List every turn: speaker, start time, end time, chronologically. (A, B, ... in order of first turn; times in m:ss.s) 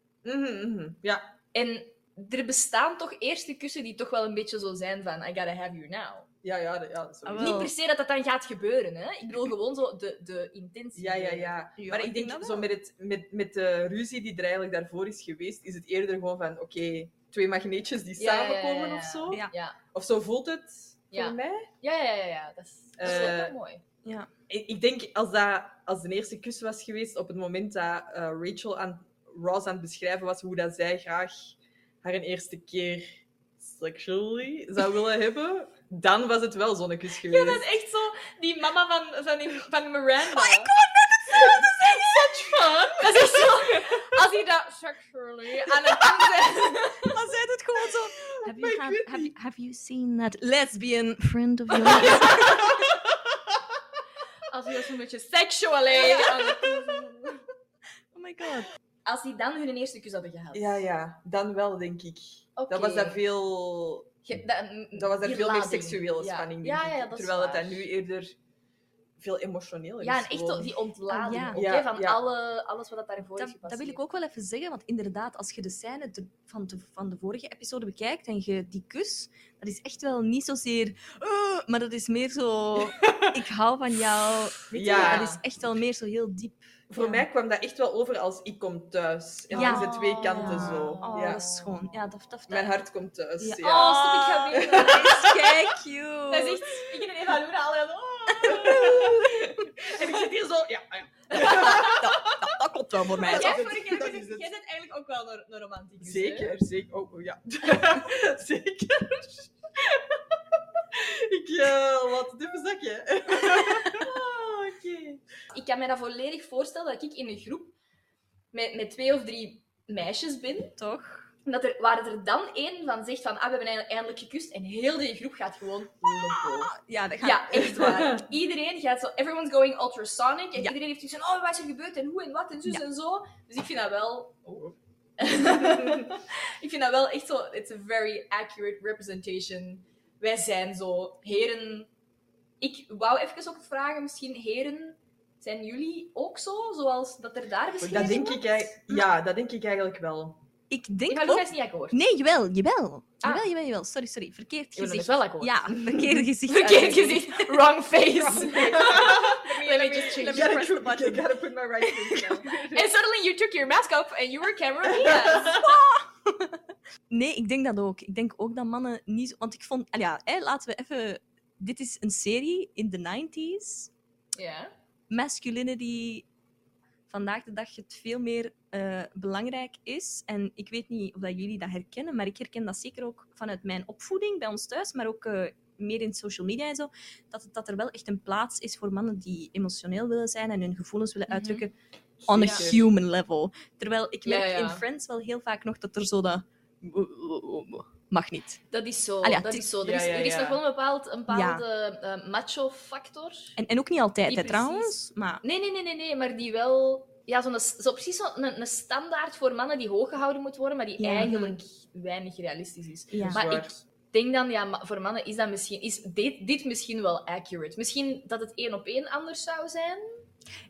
0:00.2-0:01.3 A
0:01.5-0:06.3 B
0:06.4-0:07.6 A
0:07.2-0:07.7 C
0:07.4-0:11.6 B
0:11.0-0:19.4 A
0:11.8-0:12.7 C
0:18.2-0:19.8 B
0:19.9-0:21.7 A
0:21.1-0:23.8 B
0:23.0-0:23.5 A
0:24.5-0:37.6 A
0:37.2-0:40.7 B
0:40.4-0:42.4 C
0:41.3-0:43.0 A
0:42.5-0:47.2 B
0:47.0-0:52.8 C
0:48.2-0:49.3 A
0:51.8-0:53.0 A
0:54.5-0:57.4 B
0:55.9-0:56.9 C
0:58.1-0:58.7 C
0:59.0-1:00.8 B
1:00.5-1:04.1 A
1:02.6-1:03.2 B
1:04.2-1:07.8 B
1:04.9-1:08.3 A
1:09.2-1:10.7 A
1:10.0-1:14.0 B
1:11.1-1:11.6 C
1:11.5-1:12.2 A
1:13.4-1:27.2 C
1:23.0-1:23.3 A
1:24.7-1:25.3 A
1:24.7-1:25.4 B
1:26.9-1:31.4 A
1:29.5-1:31.5 B
1:29.5-1:32.8 C
1:32.5-1:34.0 A
1:33.4-1:36.8 C
1:33.6-1:35.4 B
1:34.5-1:35.1 A
1:36.3-1:38.7 B
1:38.4-1:42.4 A
1:38.4-1:39.1 C
1:41.3-1:41.9 B
1:41.4-1:43.7 C
1:43.1-1:44.5 A
1:43.2-1:46.5 B
1:46.0-1:50.0 A
1:50.9-1:55.2 A
1:55.5-1:57.8 B
1:58.5-2:00.7 B
2:00.8-2:01.3 C
2:01.4-2:21.9 B
2:06.4-2:08.0 C
2:07.5-2:08.2 A
2:22.6-2:28.6 B
2:27.8-2:30.4 A
2:28.0-2:28.3 C
2:30.7-2:41.2 C
2:31.1-2:32.0 B
2:34.8-2:35.6 B
2:35.9-2:36.2 A
2:36.5-2:40.6 B
2:38.3-2:42.8 A
2:41.9-2:42.3 C
2:42.6-2:45.6 B
2:44.9-2:45.6 A
2:45.2-2:46.6 C
2:47.1-2:53.9 C
2:54.3-2:54.7 B
2:55.1-2:56.2 C
2:57.1-3:11.7 C
3:11.3-3:11.6 B
3:12.2-3:12.8 A
3:12.2-3:18.6 C
3:12.3-3:12.6 B
3:14.2-3:14.8 B
3:18.7-3:23.6 B
3:19.2-3:19.7 C
3:19.8-3:20.6 A
3:21.3-3:21.6 C
3:23.6-3:25.4 C
3:24.3-3:40.2 B
3:31.0-3:31.6 C
3:33.1-3:33.4 C
3:33.2-3:33.7 A